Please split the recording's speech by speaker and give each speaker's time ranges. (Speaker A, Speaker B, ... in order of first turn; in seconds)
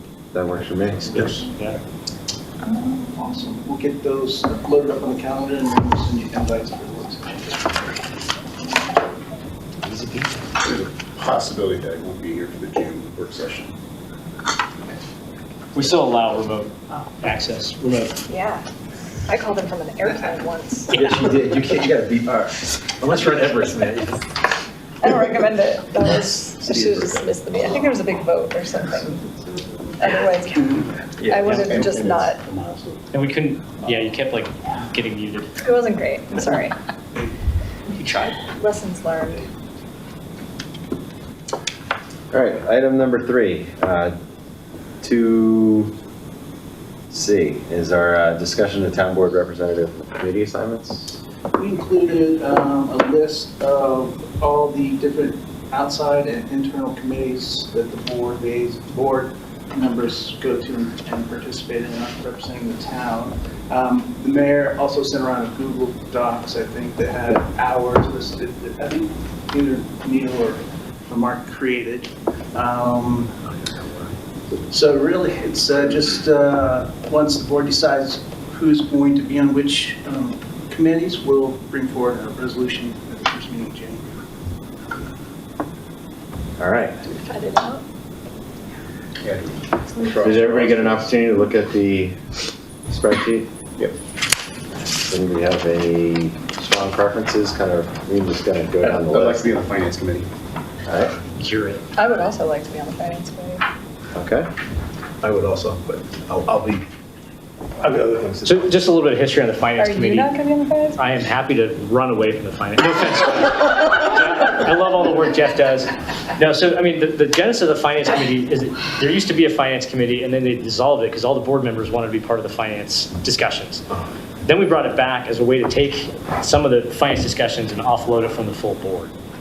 Speaker A: 0.3-1.4, 42.3-44.1, 45.0-45.9, 47.1-51.2, 86.6-87.0, 90.2-92.2, 92.9-93.5, 94.9-99.5, 100.8-101.1, 104.1-104.5
Speaker B: 1.1-1.4, 20.9-24.2, 26.5-27.4, 31.2-32.3, 105.2-106.8, 107.8-108.7
Speaker C: 1.2-1.4, 3.1-7.7, 30.5-30.9, 51.6-73.3, 74.7-84.2
Speaker D: 1.5-1.8, 15.7-18.2, 33.1-35.5, 37.9-38.4, 101.4-101.8, 108.4-110.4, 111.0-123.9, 124.4-129.1
Speaker E: 10.6-13.7, 31.6-32.9, 89.2-91.0, 98.8-100.3
Speaker F: 18.3-18.6, 19.3-21.4, 25.0-29.3, 30.0-32.4, 35.6-36.8, 38.4-39.5, 87.0-87.8, 102.0-103.6, 109.8-111.0